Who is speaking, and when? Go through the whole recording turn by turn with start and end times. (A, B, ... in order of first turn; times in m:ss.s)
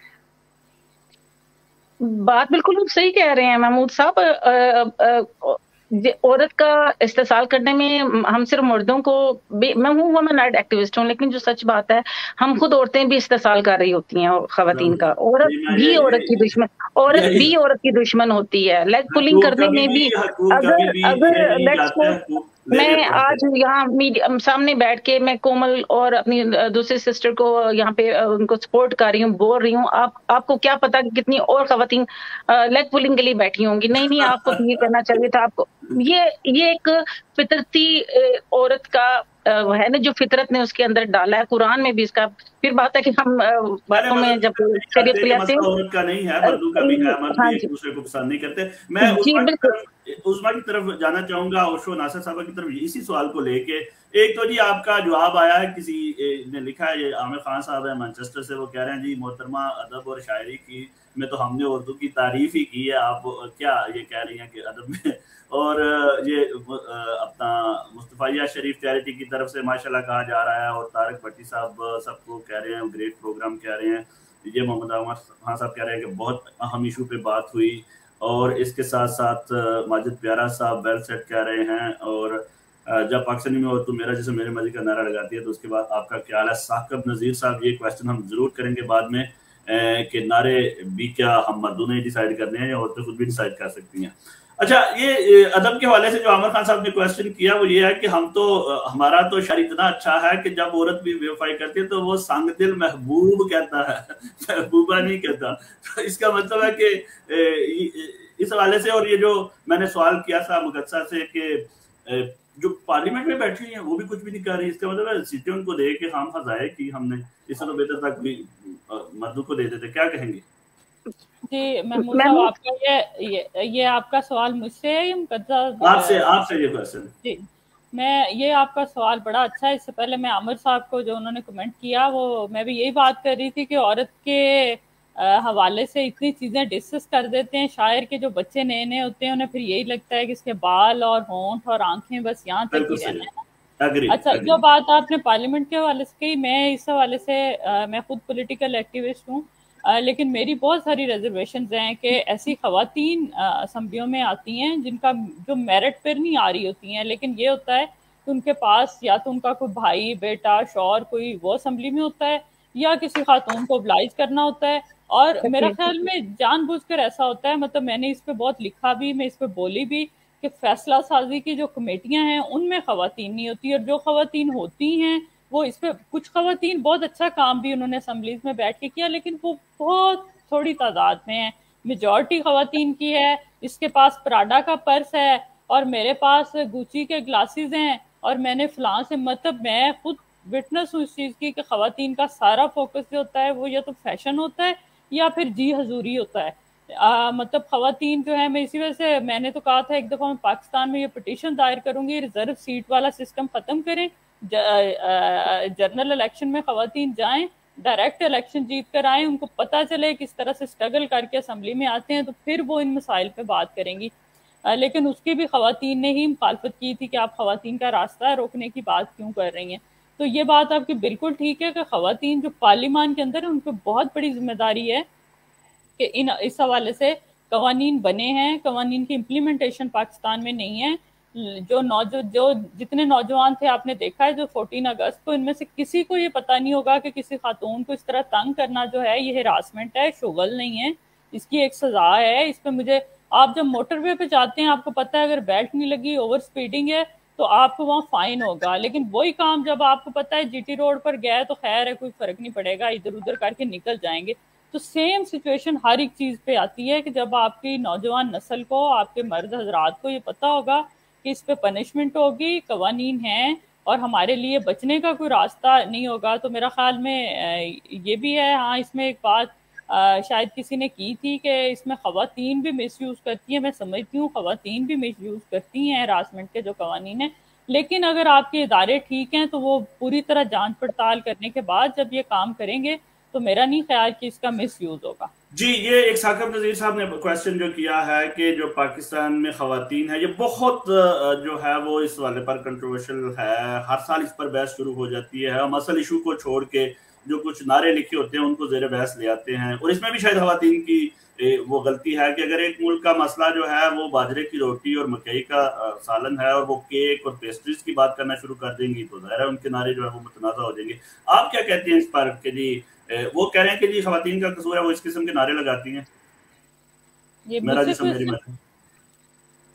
0:02.0-0:45.7 A
0:14.7-0:16.5 B
0:17.1-0:17.5 B
0:19.1-0:23.4 B
0:34.1-0:34.6 B
0:43.9-2:00.4 B
0:46.4-0:47.7 A
0:49.0-0:49.8 A
2:01.4-2:06.3 C
2:02.0-2:02.5 A
2:05.8-2:07.1 B
2:07.2-2:23.4 C
2:22.7-2:23.3 B
2:23.8-2:24.6 B
2:24.1-3:34.1 C
2:45.4-2:45.8 A
3:34.6-3:45.0 C
3:46.0-4:45.3 C
4:45.5-5:16.0 B
5:17.5-5:18.4 C
5:17.6-5:18.6 B